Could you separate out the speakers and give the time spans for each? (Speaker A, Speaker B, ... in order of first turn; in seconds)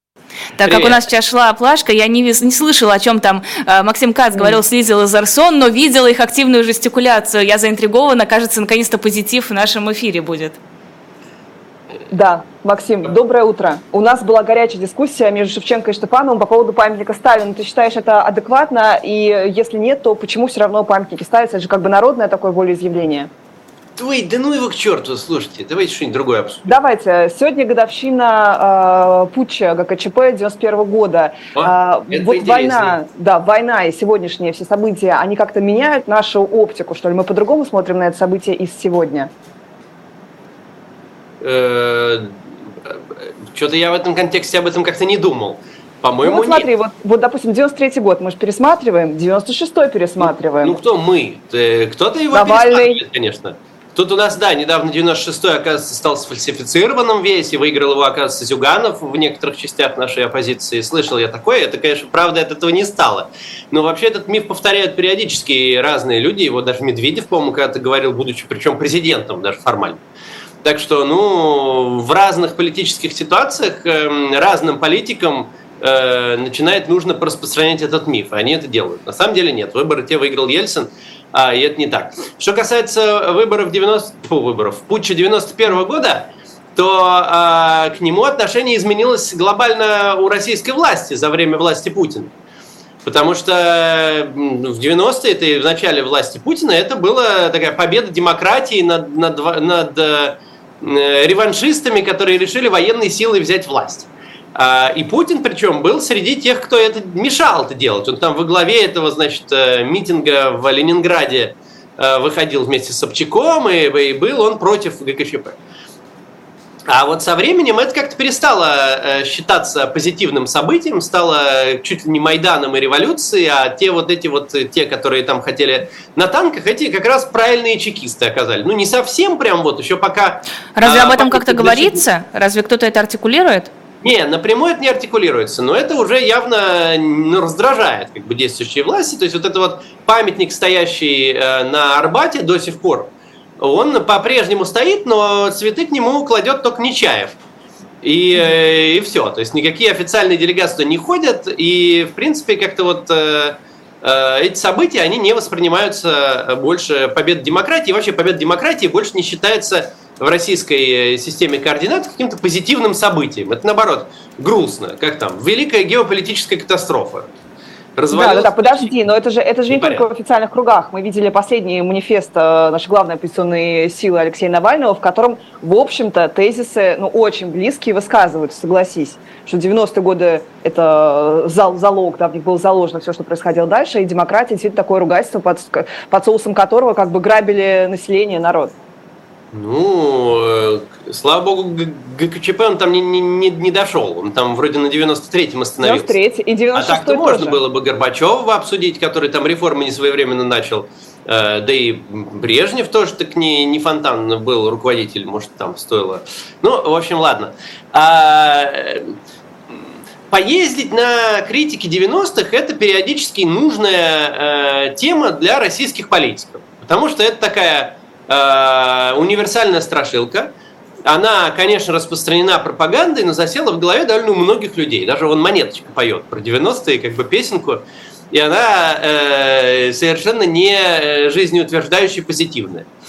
Speaker A: 0.6-10.6, 130.8-133.7
Speaker B: 0.6-1.0, 24.0-26.7, 31.5-33.0, 41.4-46.7, 50.2-70.0, 70.6-92.3, 93.0-115.6, 116.9-132.0, 134.0-147.4, 148.0-167.3, 167.9-168.9, 169.7-170.0, 189.5-196.1, 196.7-209.1, 209.7-220.5, 221.1-232.9
Speaker C: 4.3-4.6, 12.1-23.3, 26.6-39.3, 46.2-50.8, 52.3-53.0, 168.1-188.7, 195.8-197.6